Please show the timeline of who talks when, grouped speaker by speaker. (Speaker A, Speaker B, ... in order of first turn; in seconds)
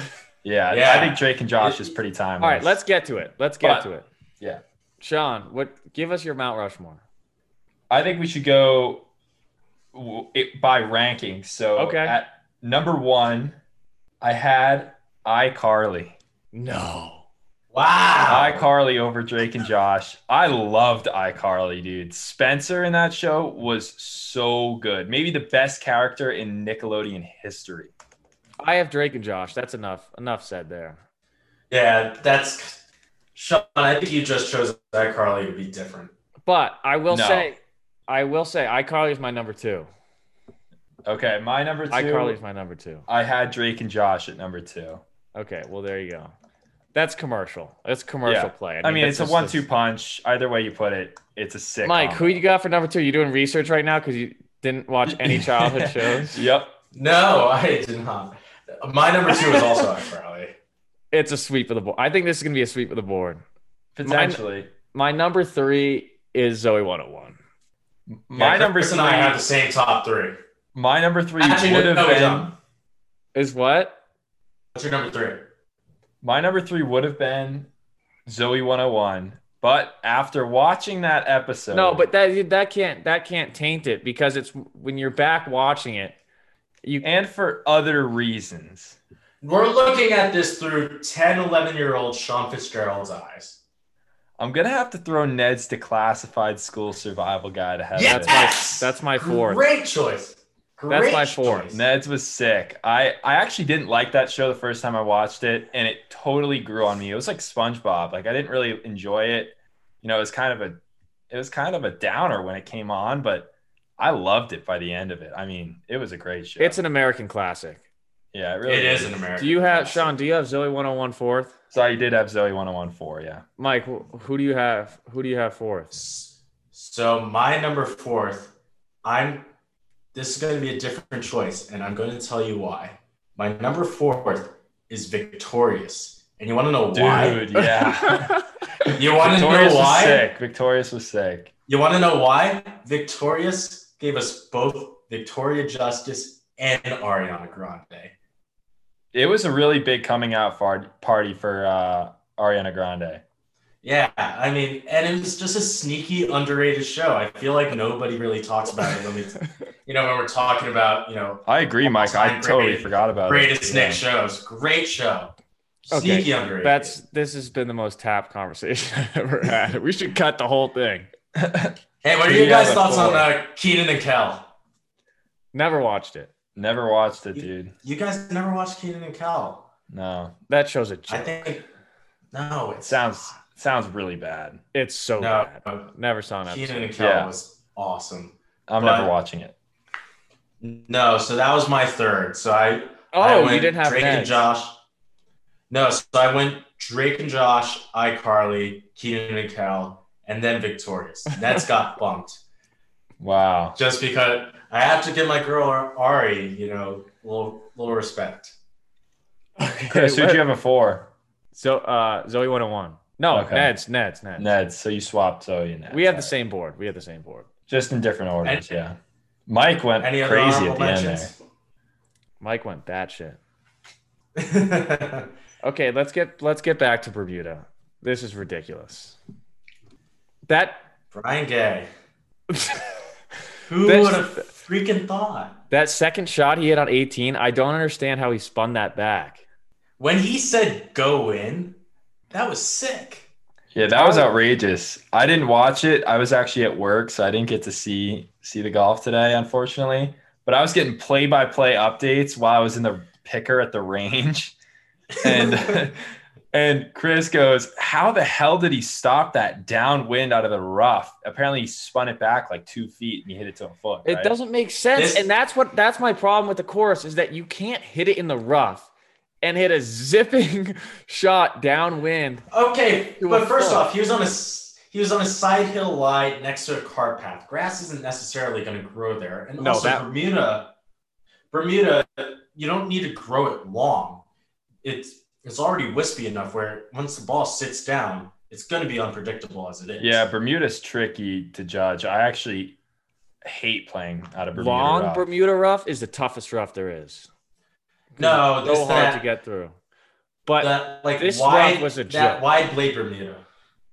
Speaker A: 0.4-2.8, 7.9-9.0, 9.9-13.6, 14.2-16.2, 18.3-27.9, 37.1-37.5, 41.0-42.4, 43.1-45.0, 48.2-52.4, 55.1-56.8, 64.0-64.7, 68.1-69.4, 70.7-72.5, 76.2-77.7, 78.2-82.0, 87.0-89.0, 94.4-98.4, 101.7-116.8, 118.3-119.2, 121.7-123.4, 136.9-138.3, 139.2-141.5, 149.1-153.2, 161.5-164.0, 171.3-173.3, 176.6-177.7, 179.9-180.3, 182.8-184.6, 187.0-187.3, 188.7-189.5, 203.2-203.8, 209.9-211.1, 213.3-213.7, 214.4-216.3, 217.7-219.0, 219.5-221.3, 243.7-254.6, 255.2-256.0, 256.5-264.3, 290.0-292.8, 293.4-295.2
Speaker B: 0.7-1.9, 17.7-18.6, 31.7-32.8, 33.4-36.1, 56.9-60.5, 68.3-70.3, 71.4-72.5, 74.7-75.5, 89.4-93.6, 98.0-101.8, 118.7-120.1, 125.9-129.5, 130.1-137.4, 138.8-140.3, 141.7-148.1, 153.8-165.3, 165.8-166.9, 172.0-174.5, 177.3-179.7, 181.1-181.7, 182.3-183.3, 185.2-185.9, 186.5-189.1, 190.6-194.8, 195.7-202.4, 203.8-208.5, 218.4-218.8, 220.0-221.4, 224.3-225.3, 231.1-231.9, 233.7-235.6, 240.0-241.8, 242.3-243.3, 264.9-265.2, 272.5-280.7, 281.5-284.2, 284.8-290.2, 298.2-299.2, 300.6-303.4
Speaker C: 2.4-4.1, 5.0-7.0, 11.8-12.2, 16.5-17.2, 28.6-31.0, 36.5-39.9, 41.9-43.0, 45.3-46.3, 46.9-49.6, 51.8-56.4, 61.1-63.4, 64.0-67.4, 73.3-74.0, 81.7-86.2, 86.8-87.2, 98.0-99.6, 100.9-101.7, 116.6-117.8, 119.4-121.5, 123.6-125.9, 137.5-138.4, 158.9-159.5, 165.9-171.1, 175.5-176.3, 180.5-181.5, 184.7-186.9, 193.1-194.4, 209.6-210.4, 211.5-214.5, 215.9-217.5, 222.4-223.4, 225.6-229.2, 230.5-230.8, 232.5-232.8, 233.8-234.4, 235.7-239.4, 243.9-244.3, 264.0-268.9, 269.4-272.4, 273.2-273.9, 279.6-280.1, 294.5-297.3, 298.1-299.8, 300.4-302.4